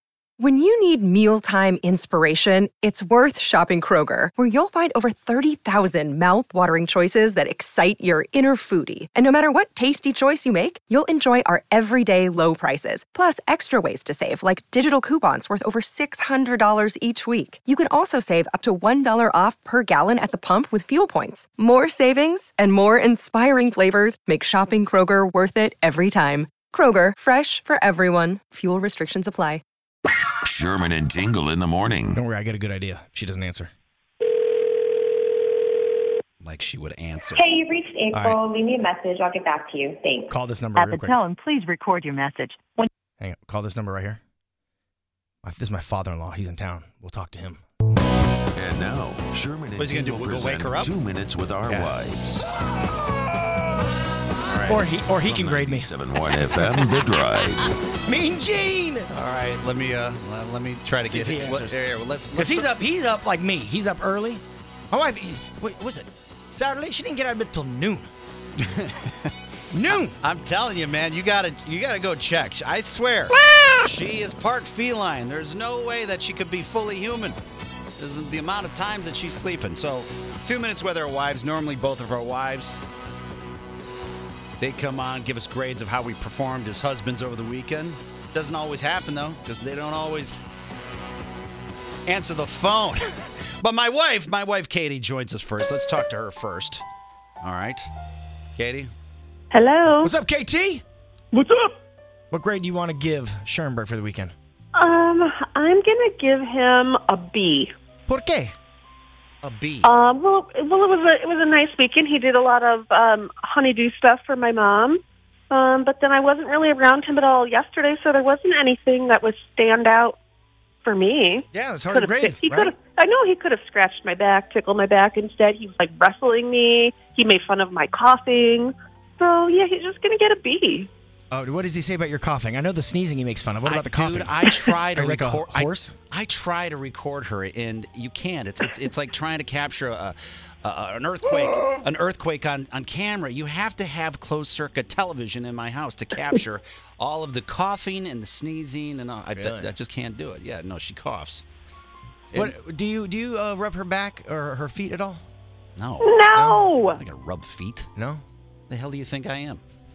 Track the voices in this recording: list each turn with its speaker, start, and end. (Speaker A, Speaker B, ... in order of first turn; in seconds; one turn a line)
Speaker A: 0.4-29.6
Speaker B: 30.4-32.2
Speaker C: 32.1-33.7
Speaker D: 36.4-37.6
Speaker E: 37.4-40.3
Speaker C: 38.1-38.4
Speaker C: 40.3-41.2
Speaker F: 40.8-42.9
Speaker C: 43.2-44.2
Speaker C: 45.4-47.6
Speaker B: 48.5-52.5
Speaker D: 49.8-50.9
Speaker C: 51.7-52.0
Speaker D: 54.4-54.8
Speaker C: 54.7-55.9
Speaker B: 55.2-57.7
Speaker C: 56.5-57.1
Speaker C: 58.0-59.1
Speaker D: 59.1-62.7
Speaker C: 61.0-61.8
Speaker C: 62.3-68.1
Speaker D: 68.6-69.3
Speaker C: 69.7-70.1
Speaker D: 70.2-77.4
Speaker D: 78.0-82.8
Speaker D: 84.6-90.4
Speaker D: 92.1-96.8
Speaker D: 97.4-97.9
Speaker D: 98.5-98.9
Speaker G: 99.5-100.1
Speaker C: 100.0-100.8
Speaker C: 102.3-104.3
Speaker G: 104.7-107.7
Speaker C: 108.1-108.5
Speaker D: 109.4-109.9
Speaker G: 109.8-120.2
Speaker G: 120.8-130.9
Speaker C: 121.5-122.7
Speaker C: 131.3-134.4
Speaker D: 133.6-151.4
Speaker C: 134.9-135.9
Speaker C: 149.3-149.7
Speaker C: 152.3-155.2
Speaker D: 155.8-156.2
Speaker G: 156.0-157.0
Speaker C: 156.3-156.7
Speaker D: 156.9-157.9
Speaker C: 157.9-158.2
Speaker D: 158.7-159.6